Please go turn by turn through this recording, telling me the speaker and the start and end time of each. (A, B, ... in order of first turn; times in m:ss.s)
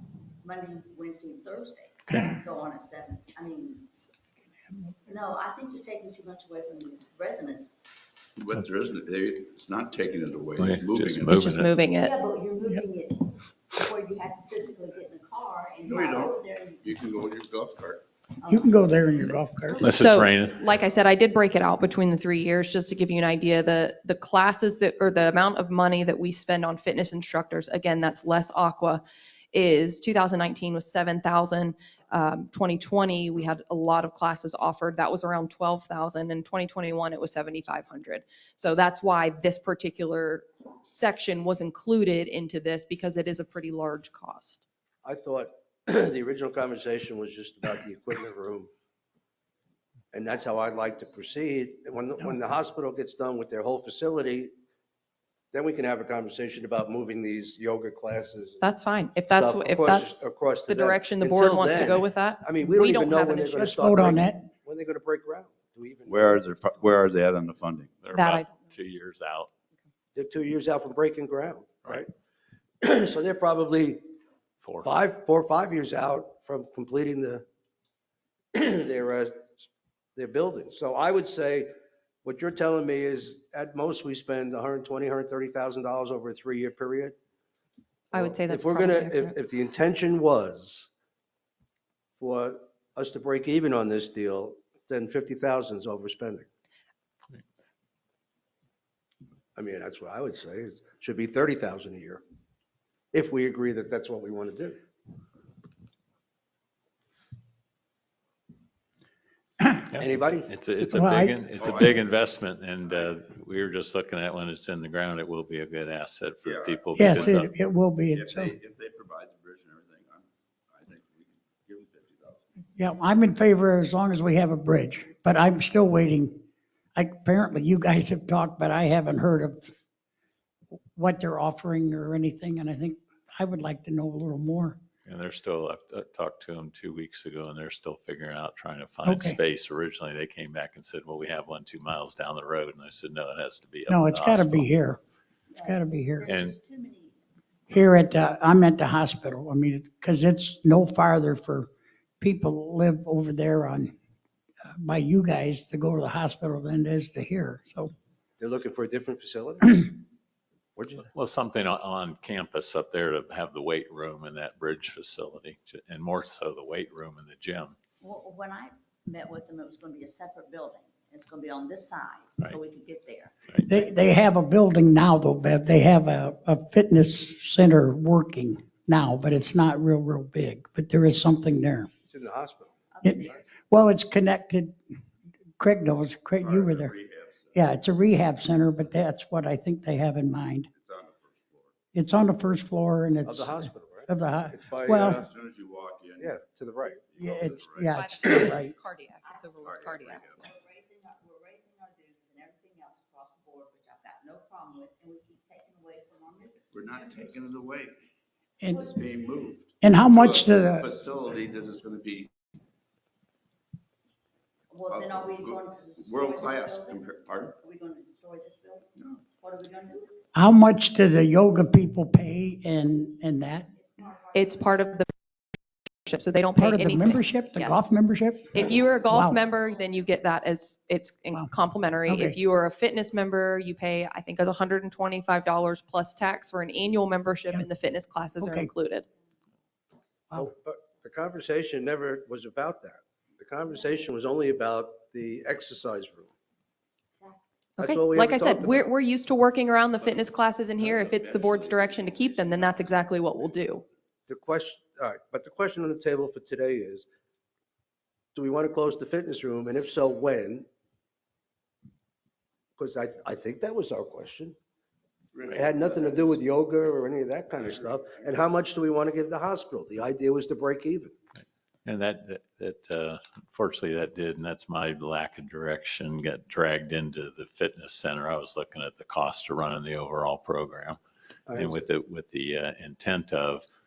0:00.4-0:03.9 A
0:05.0-0:07.7 A
0:08.4-0:11.5 B
0:10.6-0:11.7 C
0:11.4-0:12.1 D
0:12.0-0:16.8 A
0:15.8-0:18.0 B
0:18.4-0:19.4 A
0:18.5-0:19.9 E
0:19.8-0:20.7 C
0:19.9-0:44.6 D
0:45.0-0:48.7 F
0:50.1-0:54.5 F
0:50.3-0:51.4 A
0:55.5-0:58.6 F
0:58.6-1:03.7 D
0:59.3-1:06.4 F
1:03.6-1:04.5 E
1:06.1-1:08.1 B
1:08.0-1:09.5 C
1:08.1-1:08.5 D
1:10.1-1:12.1 F
1:12.8-1:14.1 F
1:14.6-1:14.9 C
1:14.8-1:17.4 F
1:18.5-1:21.7 F
1:22.2-1:27.2 F
1:28.1-1:30.9 F
1:28.1-1:29.3 D
1:32.2-1:36.5 F
1:39.6-1:42.2 F
1:43.1-1:44.8 F
1:49.9-1:57.5 C
1:50.0-1:50.5 F
1:50.8-1:51.4 E
1:51.6-1:52.0 B
1:56.4-1:57.4 B
1:56.9-1:58.5 E
1:58.1-2:02.5 B
2:02.8-2:06.4 E
2:06.9-2:09.7 E
2:10.9-2:14.8 E
2:15.0-2:24.7 C
2:19.0-2:19.4 E
2:23.9-2:25.0 E
2:25.5-2:27.2 A
2:25.6-2:26.3 E
2:26.2-2:26.5 C
2:27.7-2:31.7 E
2:32.2-2:33.9 E
2:34.7-2:37.9 E
2:38.4-2:39.9 F
2:40.8-2:41.1 F
2:41.1-2:47.8 C
2:48.0-2:53.3 A
2:53.7-3:01.9 E
3:02.1-3:03.4 F
3:02.9-3:03.5 A
3:03.0-3:04.8 E
3:05.6-3:06.9 E
3:06.4-3:07.6 B
3:07.5-3:10.7 E
3:10.7-3:11.7 B
3:11.9-3:15.2 E
3:13.2-3:15.3 F
3:15.1-3:16.4 B
3:16.2-3:17.0 F
3:17.0-3:18.4 B
3:17.2-3:18.7 E
3:17.9-3:20.5 D
3:19.2-3:27.4 A
3:19.6-3:20.6 B
3:26.7-3:27.9 B
3:28.6-3:28.9 E
3:28.7-3:29.0 A
3:28.8-3:32.3 B
3:29.8-3:30.9 E
3:34.7-3:37.0 A
3:34.9-3:37.5 B
3:37.5-3:40.2 A
3:40.3-3:43.7 E
3:43.5-3:45.0 A
3:44.3-3:45.1 D
3:46.0-3:47.8 D
3:46.6-3:49.4 E
3:47.4-3:47.8 A
3:48.5-3:50.2 A
3:48.5-3:59.1 D
3:52.1-3:52.4 E
3:58.4-3:58.7 E
4:00.3-4:01.3 A
4:00.3-4:06.3 F
4:03.6-4:04.1 A
4:07.1-4:07.4 A
4:07.8-4:13.8 D
4:07.8-4:08.9 F
4:10.0-4:13.4 B
4:14.3-4:17.1 F
4:18.3-4:20.7 F
4:22.8-4:24.6 F
4:25.3-4:26.4 B
4:25.5-4:31.1 F
4:27.5-4:28.4 B
4:31.8-4:41.0 C
4:41.5-4:41.8 F
4:41.5-4:43.6 C